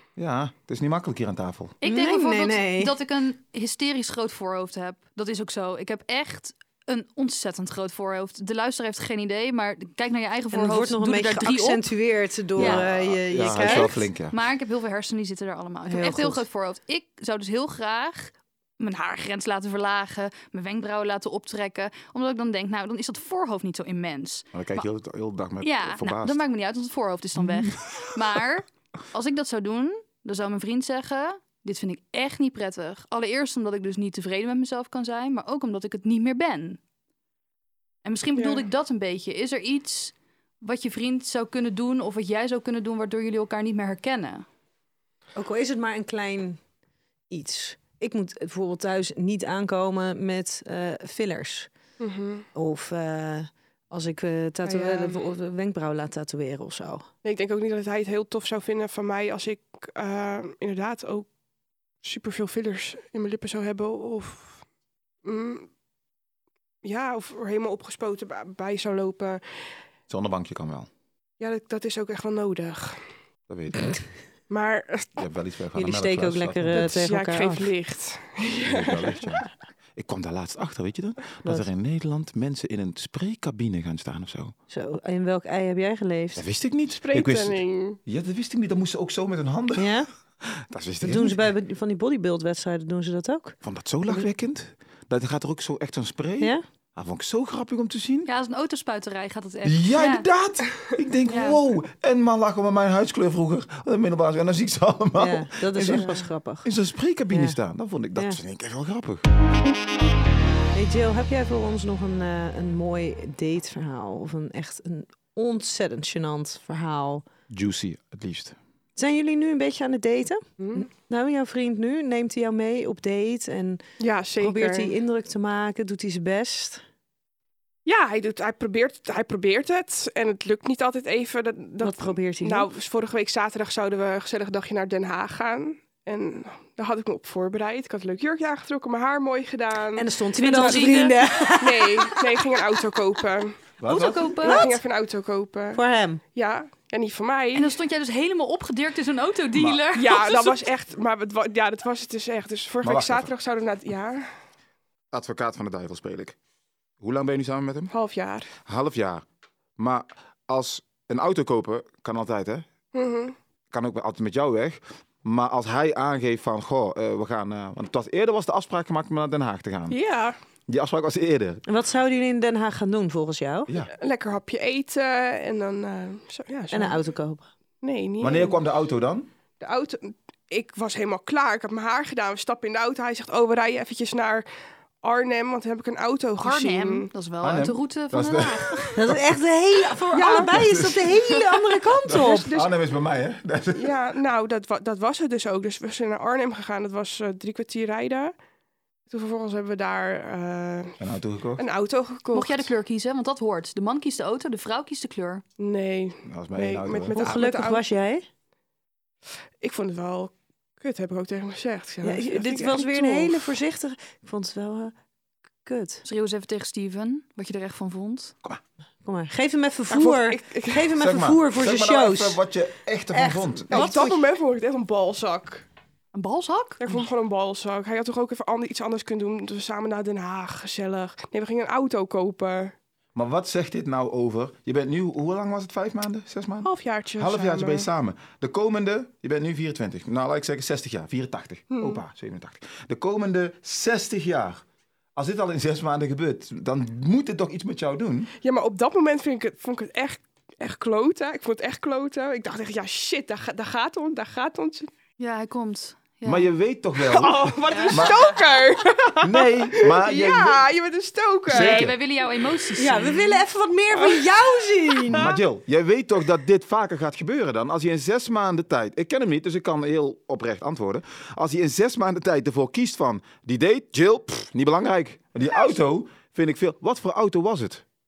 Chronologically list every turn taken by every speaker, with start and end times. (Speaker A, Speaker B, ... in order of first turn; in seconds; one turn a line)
Speaker A: 0.2-1.8
Speaker B: 1.8-11.9
Speaker C: 1.8-2.9
Speaker C: 10.5-13.9
Speaker B: 12.6-12.8
Speaker A: 12.6-14.4
Speaker B: 13.5-24.8
Speaker C: 15.8-16.4
Speaker A: 24.5-26.4
Speaker B: 25.6-36.8
Speaker A: 27.4-28.1
Speaker B: 38.0-44.5
Speaker D: 38.4-38.6
Speaker C: 45.4-46.6
Speaker C: 47.3-51.7
Speaker D: 52.0-52.5
Speaker C: 52.5-57.1
Speaker D: 54.6-55.2
Speaker D: 57.2-61.3
Speaker D: 62.0-64.6
Speaker D: 65.2-65.7
Speaker D: 66.8-69.4
Speaker A: 70.1-70.9
Speaker D: 71.4-73.0
Speaker A: 73.5-74.0
Speaker D: 74.5-75.2
Speaker A: 75.2-77.0
Speaker C: 75.8-77.7
Speaker D: 76.7-79.3
Speaker A: 78.7-84.5
Speaker C: 84.7-86.4
Speaker A: 86.4-89.9
Speaker D: 87.0-88.0
Speaker C: 89.8-90.1
Speaker A: 90.4-91.4
Speaker C: 91.0-93.6
Speaker A: 93.6-98.3
Speaker B: 98.3-100.3
Speaker A: 99.6-109.3
Speaker B: 101.3-101.6
Speaker C: 105.2-106.7
Speaker C: 107.3-107.6
Speaker C: 110.7-117.2
Speaker A: 117.5-118.6
Speaker C: 119.0-123.8
Speaker D: 120.6-120.9
Speaker D: 124.0-125.0
Speaker C: 124.4-126.8
Speaker D: 127.9-140.1
Speaker C: 131.8-132.7
Speaker C: 139.9-142.5
Speaker B: 140.4-141.2
Speaker D: 141.6-143.6
Speaker A: 143.8-144.4
Speaker B: 143.8-144.7
Speaker D: 144.4-145.8
Speaker C: 144.4-144.8
Speaker C: 145.7-146.2
Speaker D: 146.3-147.7
Speaker B: 147.6-150.7
Speaker A: 149.5-149.8
Speaker D: 149.9-154.3
Speaker A: 152.8-153.3
Speaker A: 155.1-156.4
Speaker A: 157.0-157.9
Speaker D: 157.9-158.5
Speaker A: 158.7-159.2
Speaker A: 159.8-162.7
Speaker D: 162.9-163.4
Speaker A: 163.7-170.0
Speaker D: 169.9-170.4
Speaker A: 170.7-171.6
Speaker C: 171.7-173.7
Speaker D: 173.9-177.0
Speaker C: 176.7-177.5
Speaker D: 177.8-178.6
Speaker A: 178.2-179.3
Speaker D: 179.6-184.5
Speaker D: 185.0-187.1
Speaker B: 186.4-188.9
Speaker A: 187.4-189.2
Speaker C: 188.9-192.5
Speaker D: 190.1-192.7
Speaker A: 190.4-191.1
Speaker A: 192.1-193.9
Speaker D: 193.8-198.3
Speaker D: 199.1-201.0
Speaker A: 201.0-201.6
Speaker D: 201.6-202.7
Speaker B: 202.3-205.4
Speaker D: 205.6-207.8
Speaker A: 206.3-207.3
Speaker C: 207.1-208.3
Speaker D: 209.6-213.5
Speaker C: 212.0-214.9
Speaker C: 215.7-216.0
Speaker B: 216.1-218.3
Speaker C: 219.1-222.4
Speaker D: 219.9-220.9
Speaker A: 221.0-223.9
Speaker C: 223.1-224.2
Speaker D: 223.7-225.7
Speaker B: 226.1-226.9
Speaker D: 226.8-232.7
Speaker A: 233.2-244.6
Speaker D: 236.6-237.9
Speaker D: 241.7-242.0
Speaker A: 245.2-248.3
Speaker D: 248.4-254.9
Speaker B: 255.2-256.5
Speaker A: 256.2-258.3
Speaker D: 257.0-261.9
Speaker B: 257.7-258.4
Speaker A: 259.2-260.6
Speaker A: 261.5-262.0
Speaker B: 261.5-263.4
Speaker C: 262.8-265.3
Speaker D: 263.9-265.4
Speaker A: 265.1-277.8